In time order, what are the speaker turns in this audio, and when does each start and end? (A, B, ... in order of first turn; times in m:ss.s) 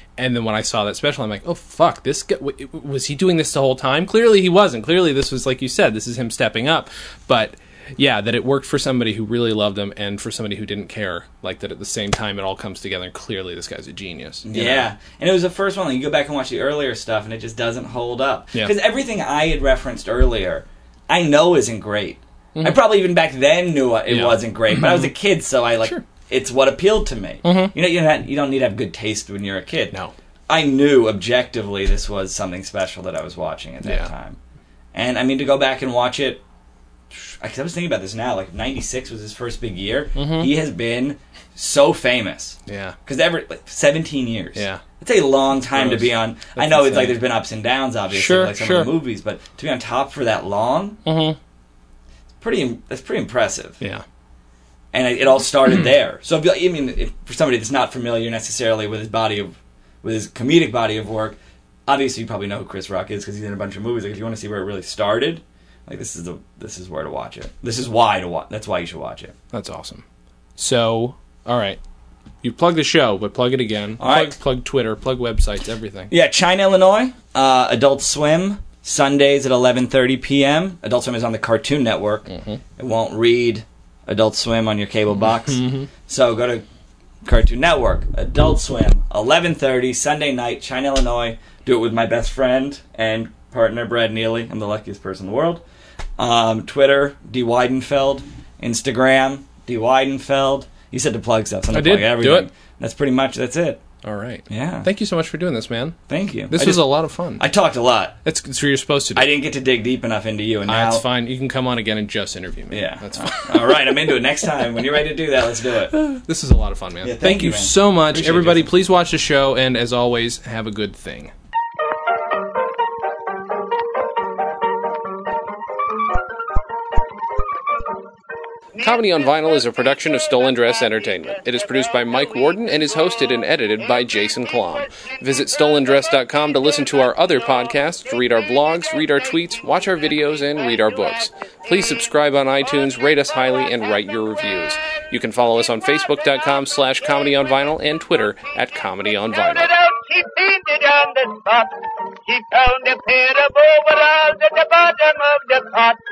0:00.2-0:14.9 A
0:14.4-0:29.9 B
0:24.1-0:25.1 A
0:27.4-0:27.7 A
0:30.5-0:34.4 B
0:33.8-0:34.1 A
0:34.9-0:36.4 B
0:37.1-0:51.0 B
0:40.2-0:40.5 A
0:42.7-0:43.0 A
0:44.5-0:44.8 A
0:45.7-0:47.2 A
0:48.1-0:48.9 A
0:51.0-0:51.4 A
0:52.4-0:53.8 B
0:54.9-1:09.3 B
1:09.5-1:10.0 A
1:10.6-1:11.8 A
1:12.4-1:16.1 A
1:14.0-1:14.3 B
1:16.1-1:26.6 B
1:22.3-1:22.6 A
1:25.4-1:25.9 A
1:27.2-1:35.6 B
1:36.2-1:43.8 B
1:41.7-1:42.5 A
1:44.0-1:46.0 A
1:44.5-1:44.9 B
1:46.1-1:46.8 B
1:46.5-1:47.4 A
1:47.4-1:48.2 B
1:48.2-1:49.3 A
1:49.1-1:51.0 B
1:50.7-1:53.8 A
1:52.7-1:55.9 B
1:55.9-2:01.3 A
1:57.0-1:58.7 B
2:08.7-2:19.3 C
2:08.8-2:29.7 A
2:20.4-2:21.0 C
2:29.3-2:36.0 C